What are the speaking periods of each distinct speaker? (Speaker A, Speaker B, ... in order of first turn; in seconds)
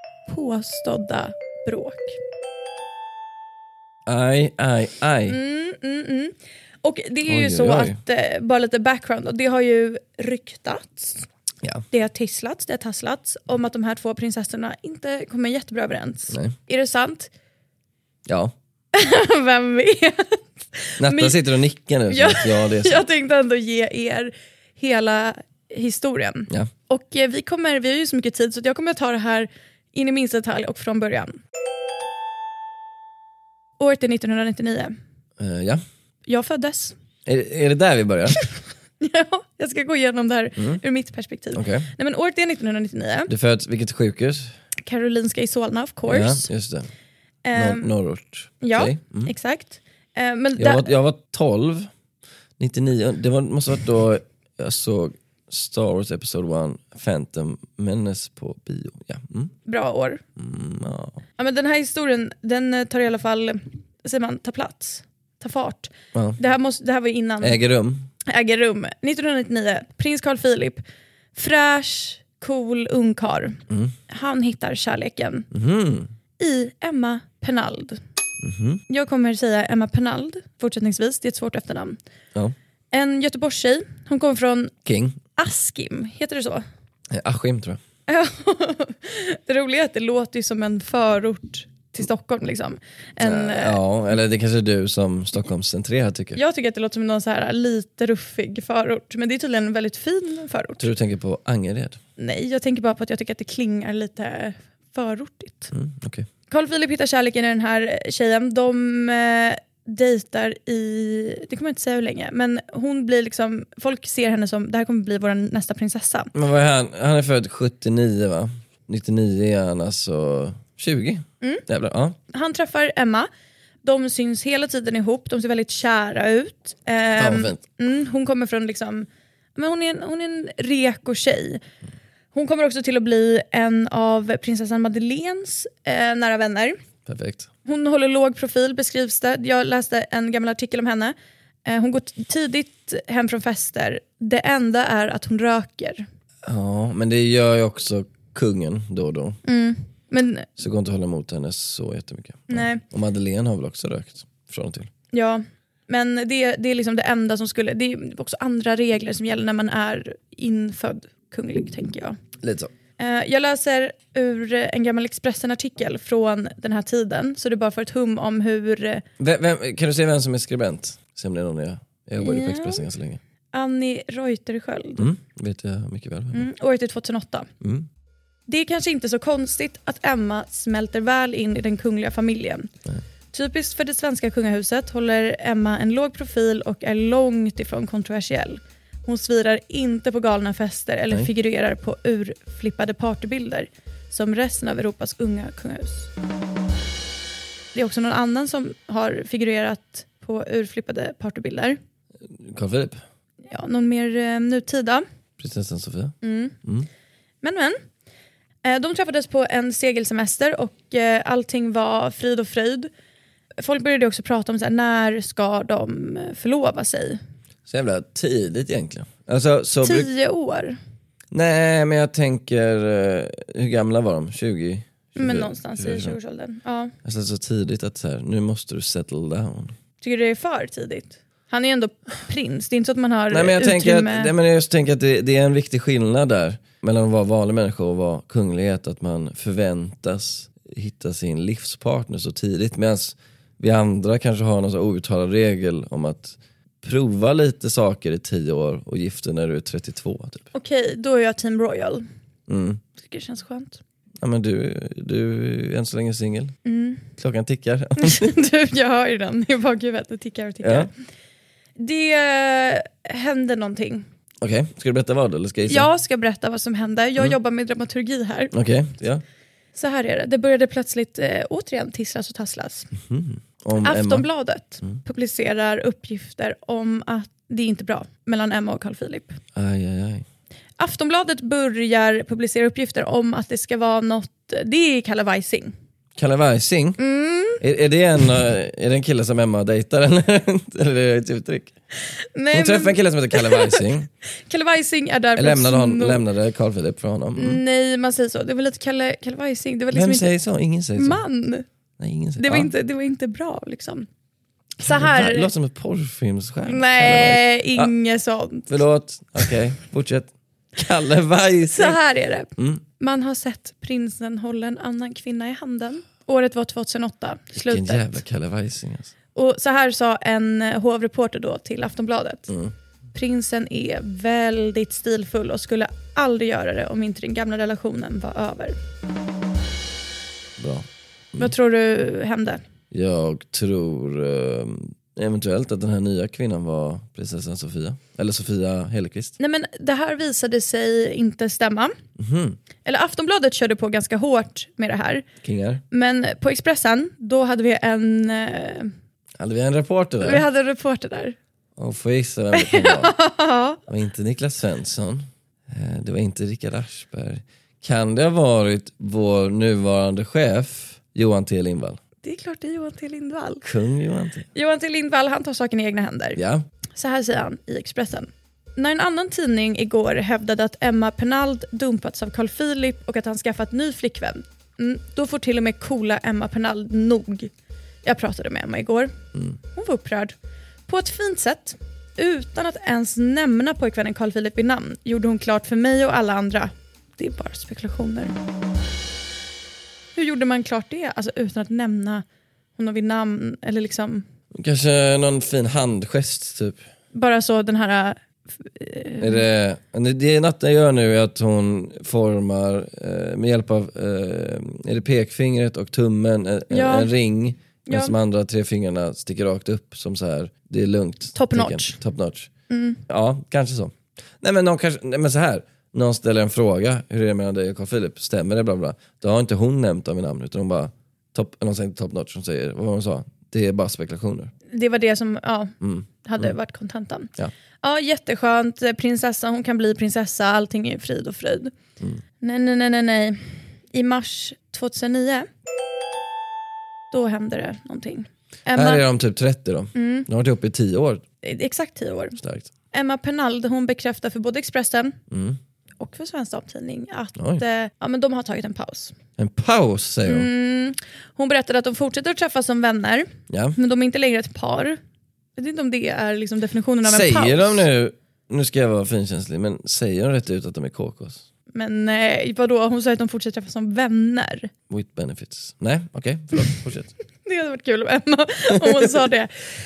Speaker A: 0.3-2.2, 5.3-11.3, 11.9-17.3, 18.9-21.4, 22.1-31.4, 33.8-35.0, 36.3-37.0, 39.0-43.3, 44.8-46.5, 47.5-47.9, 48.6-50.9, 59.7-60.2, 61.4-67.6, 68.3-70.8, 71.3-75.5, 76.4-78.0, 78.9-82.0, 82.9-84.7, 85.4-86.7, 88.1-93.8, 96.3-100.9, 102.2-105.7, 106.5-116.3, 122.3-123.3, 123.8-131.6, 132.3-136.8, 137.7-146.1, 149.5-150.5, 152.5-152.8, 155.1-162.2, 163.0-169.0, 172.2-172.8, 173.5-175.1, 176.3-177.5, 178.5-182.7, 183.3-196.1, 197.7-201.8, 203.5-205.0, 206.2-206.6, 207.4-207.8, 208.6-212.9, 213.6-217.2, 219.8-220.8, 225.2-226.9, 230.0-234.3, 250.5-252.1, 253.0-253.8, 256.6-257.1, 258.0-260.9, 261.8-264.1, 265.7-268.5, 269.8-272.9, 273.8-279.4, 280.8-285.7, 287.0-287.6, 292.3-293.8, 294.5-296.2, 297.4-300.3, 301.0-301.6, 302.4-304.1, 304.8-305.5, 306.7-308.7, 311.7-318.2, 319.4-322.5, 323.1-328.8, 331.4-332.6, 339.4-341.9, 342.9-345.2, 345.9-348.9, 350.2-351.4, 352.5-353.8, 362.2-363.6, 364.6-366.4, 367.0-377.5, 378.0-379.2, 379.7-380.4, 380.9-388.3, 390.2-392.2, 392.8-394.3, 397.1-399.4, 406.7-407.1, 407.9-408.1, 411.4-412.0, 412.7-413.0, 424.7-427.3, 427.8-431.7, 432.4-435.5, 437.1-439.0, 439.9-440.3, 441.4-442.4, 442.9-445.2, 446.0-449.2, 450.3-455.0, 455.6-457.8, 461.8-464.7, 467.4-469.5
Speaker B: 4.1-5.4, 7.3-8.0, 18.3-18.5, 21.0-23.0, 35.4-35.8, 37.3-38.4, 41.5-41.9, 43.3-44.5, 46.1-46.9, 47.5-49.3, 50.6-51.9, 52.6-59.5, 60.4-61.2, 66.1-66.4, 67.4-68.1, 75.5-76.1, 78.4-78.8, 84.9-85.2, 87.1-87.8, 93.2-96.4, 100.8-102.0, 105.7-106.3, 116.3-122.2, 127.2-127.6, 137.1-137.5, 146.4-149.4, 150.6-154.9, 162.4-162.7, 169.2-173.2, 175.0-176.5, 177.6-177.9, 202.4-203.0, 205.4-206.9, 217.7-220.1, 221.3-226.2, 227.1-229.8, 233.3-250.5, 252.5-252.8, 254.2-256.6, 257.2-258.4, 260.6-260.9, 264.4-265.9, 268.5-269.2, 273.0-274.3, 279.6-280.2, 286.2-287.0, 287.6-291.7, 292.5-294.1, 295.4-297.6, 299.9-301.2, 302.0-302.7, 304.8-307.9, 308.7-312.0, 312.6-312.8, 317.6-319.1, 330.6-331.5, 332.9-339.4, 342.2-342.6, 345.4-345.8, 349.4-350.4, 351.8-353.1, 353.9-362.0, 363.6-364.5, 366.4-366.6, 394.6-396.8, 399.2-412.5, 413.1-424.5, 425.8-426.6, 438.8-441.2, 442.4-442.7, 445.3-445.6, 447.4-447.6, 449.4-450.5, 453.5-453.8, 457.0-461.4, 464.9-467.1, 468.8-469.1